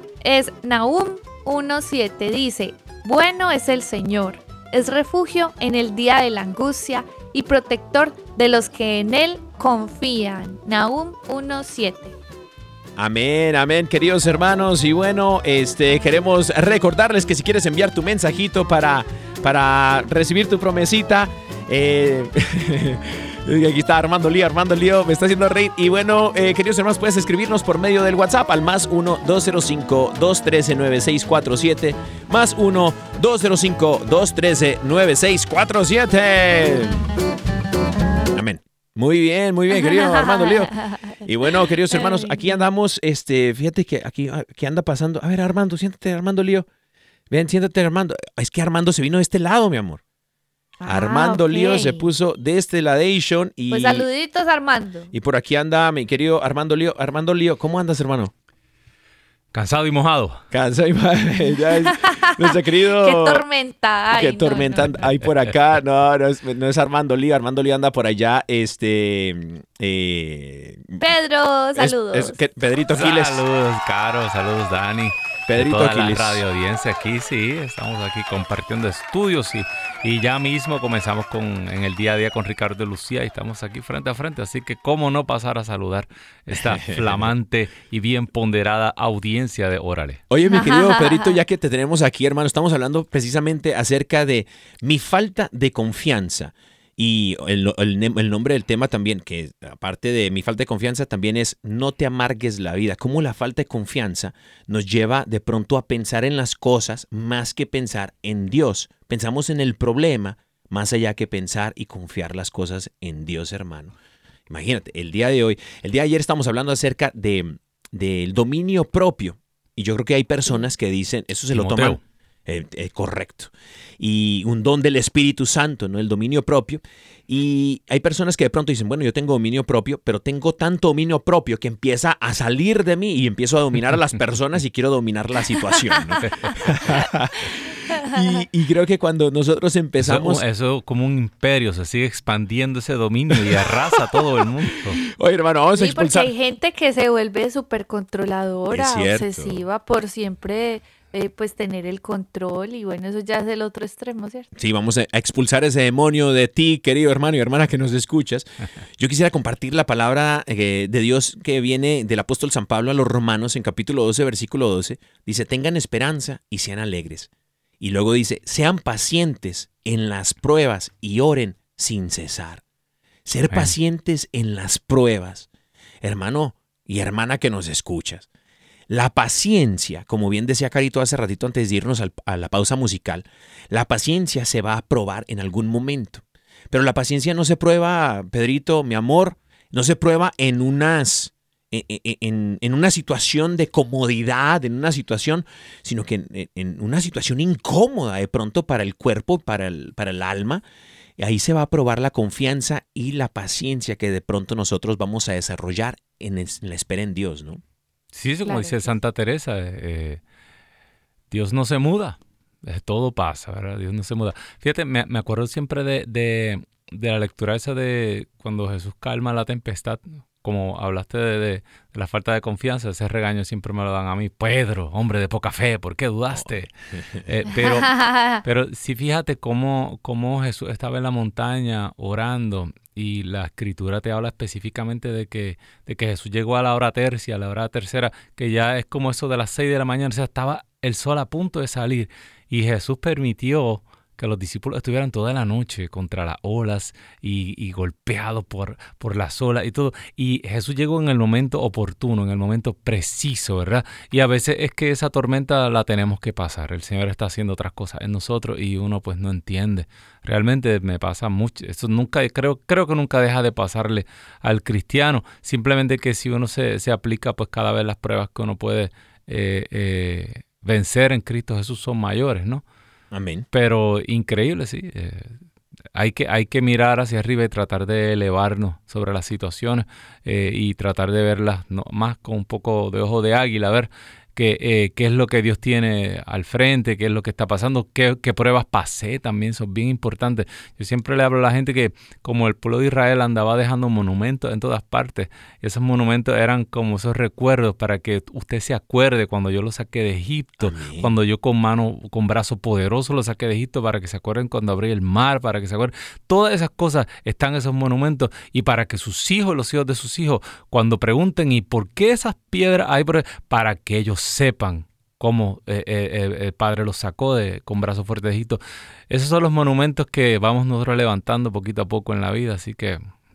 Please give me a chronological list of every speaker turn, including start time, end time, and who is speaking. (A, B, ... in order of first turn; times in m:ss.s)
0:00.2-0:12.2 A
0:13.0-0:37.0 B
0:38.3-0:46.7 B
0:39.7-0:41.1 A
0:41.9-0:42.4 A
0:47.3-0:50.0 B
0:50.8-0:52.1 A
0:50.9-0:54.1 B
0:53.7-0:55.1 A
0:55.1-0:58.3 B
0:59.5-1:00.4 C
1:00.5-1:03.4 B
1:01.8-1:05.0 A
1:04.1-1:11.1 B
1:11.0-1:12.4 A
1:11.7-1:13.4 B
1:13.0-1:30.2 C
1:15.5-1:16.4 B
1:26.5-1:27.3 B
1:30.3-1:53.9 B
1:30.4-1:31.4 A
1:54.5-2:20.4 B
2:01.5-2:02.0 C
2:16.3-2:17.0 C
2:20.0-2:25.0 C
2:23.4-2:24.2 B
2:25.0-2:26.3 B
2:25.8-2:34.5 A
2:28.7-2:29.6 B
2:34.6-2:52.6 B
2:53.2-2:55.5 B
2:56.0-2:58.3 B
2:58.9-3:20.6 B
3:21.2-3:27.6 B
3:28.1-3:30.2 C
3:28.4-3:29.0 A
3:31.3-3:46.7 C
3:47.3-4:32.6 C
3:47.5-3:48.4 A
4:33.1-4:33.4 B
4:33.5-4:35.4 C
4:35.9-5:23.0 C
5:00.6-5:01.1 B